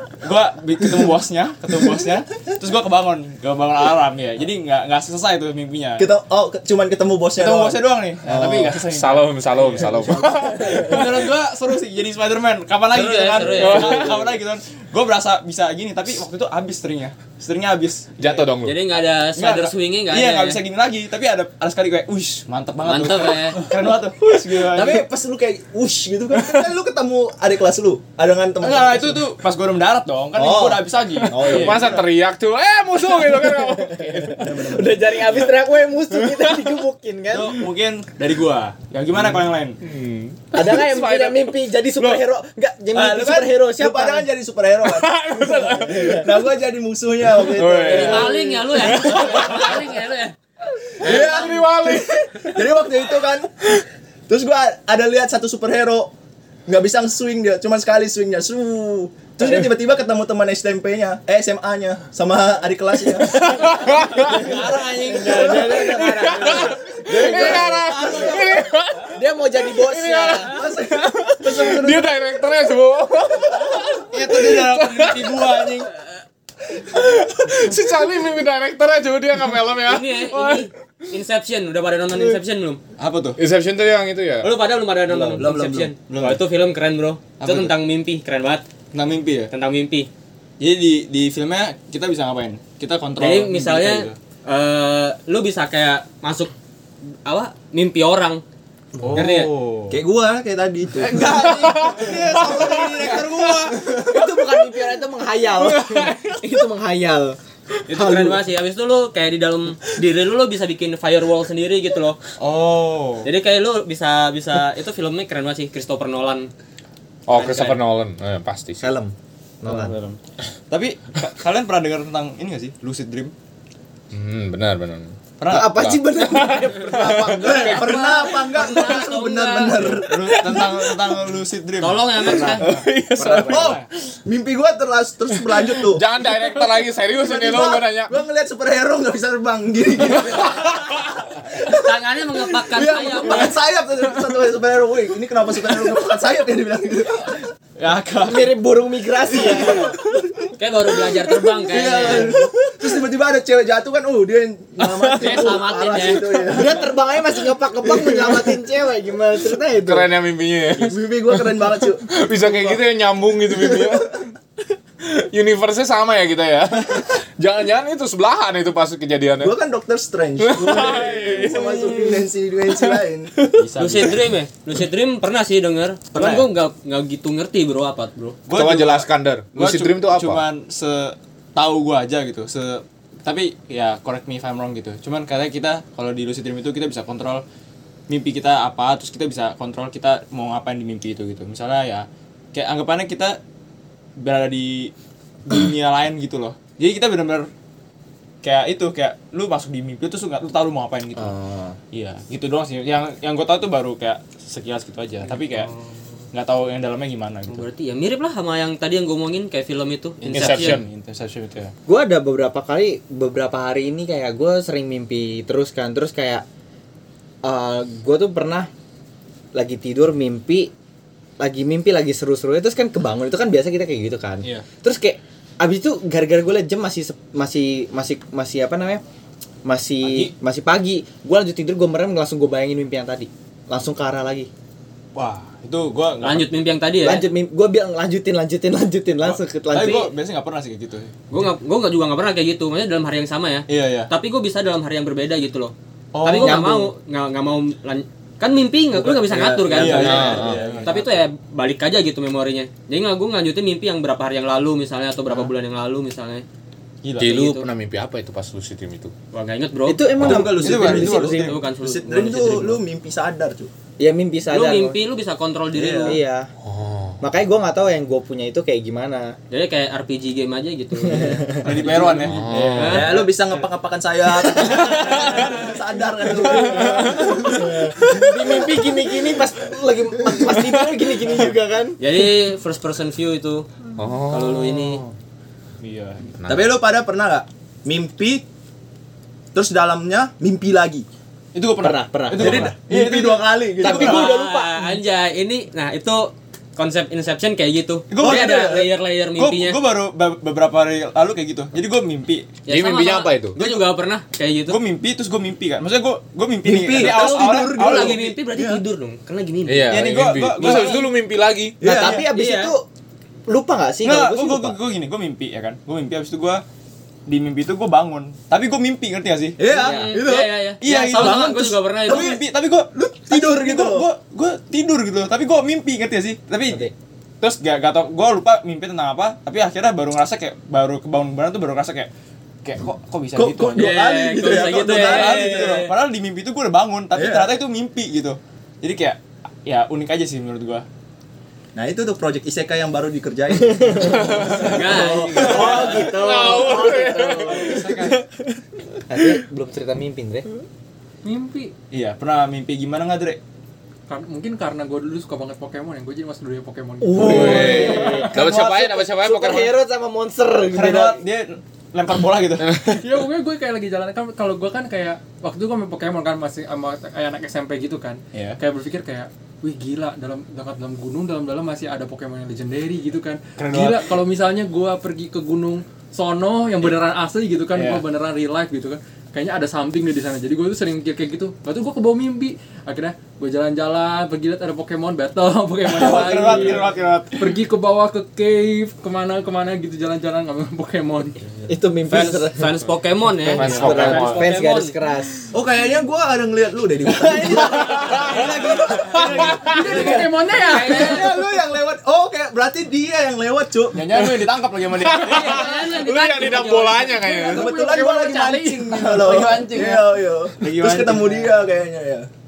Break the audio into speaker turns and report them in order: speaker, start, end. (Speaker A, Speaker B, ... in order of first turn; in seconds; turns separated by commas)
Speaker A: 0.2-6.1, Speaker B: 6.0-8.8, Speaker A: 7.4-18.5, Speaker C: 8.9-11.3, Speaker D: 10.4-10.9, Speaker E: 12.9-14.2, Speaker C: 13.4-14.3, Speaker C: 18.2-18.8, Speaker E: 18.6-20.6, Speaker A: 19.3-25.1, Speaker E: 22.8-23.6, Speaker B: 24.6-29.2, Speaker A: 28.6-32.1, Speaker B: 30.3-31.9, Speaker C: 31.2-34.5, Speaker D: 33.1-37.6, Speaker B: 34.3-35.5, Speaker C: 36.1-36.8, Speaker A: 37.3-39.8, Speaker C: 39.8-41.5, Speaker D: 40.5-44.3, Speaker A: 42.0-42.2, Speaker A: 42.9-43.5, Speaker B: 43.7-48.5, Speaker C: 44.8-46.3, Speaker C: 47.5-49.9, Speaker E: 47.9-50.3, Speaker B: 51.0-56.1, Speaker C: 51.0-52.6, Speaker B: 56.7-66.6, Speaker D: 59.4-59.7, Speaker C: 63.2-64.5, Speaker E: 64.3-65.5, Speaker A: 64.4-65.5, Speaker D: 64.5-70.6, Speaker C: 65.7-75.9, Speaker B: 67.3-68.6, Speaker B: 70.4-72.0, Speaker A: 74.1-75.9, Speaker C: 76.8-80.7, Speaker E: 79.8-82.8, Speaker A: 83.0-83.4, Speaker C: 83.4-84.5, Speaker E: 84.4-88.6, Speaker A: 85.1-85.5, Speaker B: 85.3-85.9, Speaker A: 86.1-86.4, Speaker A: 87.4-87.7, Speaker A: 88.9-89.5, Speaker E: 89.5-90.1, Speaker A: 90.6-94.2, Speaker E: 93.2-96.5, Speaker E: 97.2-98.4, Speaker A: 99.0-100.0, Speaker E: 99.1-99.5, Speaker B: 99.9-103.2, Speaker A: 101.0-104.0, Speaker C: 101.3-103.1, Speaker B: 103.7-104.2, Speaker D: 104.1-107.4, Speaker C: 105.6-106.5, Speaker D: 107.9-108.4, Speaker E: 107.9-112.2, Speaker A: 112.4-113.3, Speaker E: 113.2-116.5, Speaker C: 117.3-118.9, Speaker E: 117.3-117.8, Speaker D: 118.8-119.9, Speaker A: 119.7-120.2, Speaker A: 120.7-123.3, Speaker C: 124.1-128.1, Speaker A: 125.4-125.9, Speaker D: 125.5-128.0, Speaker B: 127.3-130.4, Speaker E: 127.6-129.8, Speaker A: 130.0-133.8, Speaker C: 130.3-131.1, Speaker E: 131.8-132.6, Speaker C: 132.2-133.8, Speaker B: 133.1-136.0, Speaker C: 135.3-138.2, Speaker B: 137.1-147.4, Speaker C: 140.2-141.0, Speaker E: 141.6-143.6, Speaker A: 147.8-148.6, Speaker D: 148.2-150.0, Speaker B: 149.7-149.9, Speaker E: 150.6-152.3, Speaker B: 151.6-156.9, Speaker C: 154.8-155.5, Speaker E: 155.2-156.3, Speaker D: 156.5-160.1, Speaker B: 158.0-158.3, Speaker C: 159.8-164.2, Speaker B: 160.8-162.8, Speaker B: 163.6-164.0, Speaker C: 165.0-169.5, Speaker B: 169.4-173.3, Speaker C: 170.4-173.0, Speaker A: 173.5-174.3, Speaker E: 173.8-178.4, Speaker A: 176.2-176.5, Speaker A: 178.5-187.4, Speaker C: 178.5-180.4, Speaker A: 188.1-193.4, Speaker A: 194.2-194.9, Speaker A: 195.4-197.5, Speaker A: 198.4-201.3, Speaker D: 201.2-201.8, Speaker A: 201.9-205.7, Speaker A: 206.3-207.6, Speaker E: 207.5-210.8, Speaker A: 210.2-211.7, Speaker C: 210.3-210.8, Speaker D: 211.9-216.4, Speaker D: 217.4-218.7, Speaker D: 219.5-220.7, Speaker D: 221.4-229.0, Speaker D: 229.6-234.5, Speaker A: 230.0-230.3, Speaker A: 235.1-236.5, Speaker E: 236.2-237.3, Speaker D: 237.0-240.1, Speaker A: 239.2-241.1, Speaker E: 241.3-256.4, Speaker A: 243.7-244.1, Speaker A: 246.1-246.7, Speaker D: 246.3-246.9, Speaker A: 248.9-251.2, Speaker C: 249.8-250.7, Speaker A: 257.0-257.3, Speaker E: 257.2-257.6, Speaker C: 257.2-259.1, Speaker E: 259.3-260.2, Speaker D: 259.9-261.6, Speaker B: 260.1-263.7, Speaker A: 260.2-261.6, Speaker E: 260.8-262.8, Speaker D: 264.0-265.0, Speaker E: 264.5-266.2, Speaker B: 265.7-266.2, Speaker D: 266.1-266.5, Speaker C: 266.6-267.2, Speaker D: 267.2-269.4, Speaker E: 269.5-273.2, Speaker D: 271.1-271.6, Speaker A: 271.5-273.2, Speaker C: 272.3-273.1, Speaker B: 272.8-278.8, Speaker D: 274.7-275.2, Speaker D: 276.5-282.0, Speaker C: 276.6-277.5, Speaker E: 282.0-283.7, Speaker C: 284.0-285.1, Speaker E: 284.3-285.0, Speaker A: 285.8-286.3, Speaker C: 286.4-286.7, Speaker B: 286.4-288.4, Speaker B: 289.5-291.1, Speaker A: 291.5-294.2, Speaker D: 291.8-292.8, Speaker B: 292.3-294.3, Speaker D: 293.8-294.9, Speaker E: 293.8-299.8, Speaker A: 298.1-302.5, Speaker B: 298.1-298.9, Speaker E: 302.6-304.8, Speaker C: 302.7-303.6, Speaker A: 303.6-303.8, Speaker A: 304.7-308.3, Speaker B: 306.6-308.8, Speaker E: 306.9-310.0, Speaker C: 309.7-311.8, Speaker A: 309.9-311.1, Speaker B: 311.8-312.2, Speaker D: 311.8-312.8, Speaker A: 311.9-312.2, Speaker E: 312.0-312.7, Speaker D: 313.5-314.8, Speaker A: 314.0-316.6, Speaker A: 317.3-319.6, Speaker B: 319.6-320.5, Speaker E: 319.7-322.4, Speaker D: 319.8-320.1, Speaker A: 320.8-326.9, Speaker B: 321.2-322.4, Speaker B: 322.9-324.1, Speaker A: 327.4-332.1, Speaker A: 332.6-340.9, Speaker B: 333.3-335.8, Speaker E: 333.7-335.9, Speaker B: 337.1-337.5, Speaker B: 341.7-346.0, Speaker D: 343.7-344.3, Speaker A: 344.3-346.2, Speaker C: 344.3-344.6, Speaker E: 344.6-345.8, Speaker D: 345.3-347.8, Speaker C: 345.9-348.1, Speaker A: 347.4-348.2, Speaker D: 349.1-350.5, Speaker F: 351.2-351.7, Speaker A: 351.9-353.4, Speaker F: 354.1-358.3, Speaker D: 357.0-361.2, Speaker C: 357.1-359.7, Speaker A: 357.5-357.8, Speaker A: 360.7-362.8, Speaker C: 362.6-363.0, Speaker F: 362.9-391.4, Speaker A: 368.3-368.6, Speaker A: 373.6-374.1, Speaker A: 377.7-378.0, Speaker A: 385.8-387.6, Speaker D: 391.7-392.6, Speaker E: 392.1-394.9, Speaker C: 393.4-394.5, Speaker D: 393.5-395.4, Speaker A: 393.6-394.2, Speaker B: 395.5-404.1, Speaker A: 397.6-400.2, Speaker C: 397.8-398.4, Speaker F: 399.2-401.3, Speaker C: 399.3-400.0, Speaker E: 400.7-401.2, Speaker A: 403.9-405.7, Speaker C: 404.2-404.4, Speaker C: 405.0-407.7, Speaker E: 405.1-407.2, Speaker F: 407.1-410.0, Speaker B: 407.4-412.3, Speaker A: 409.1-411.6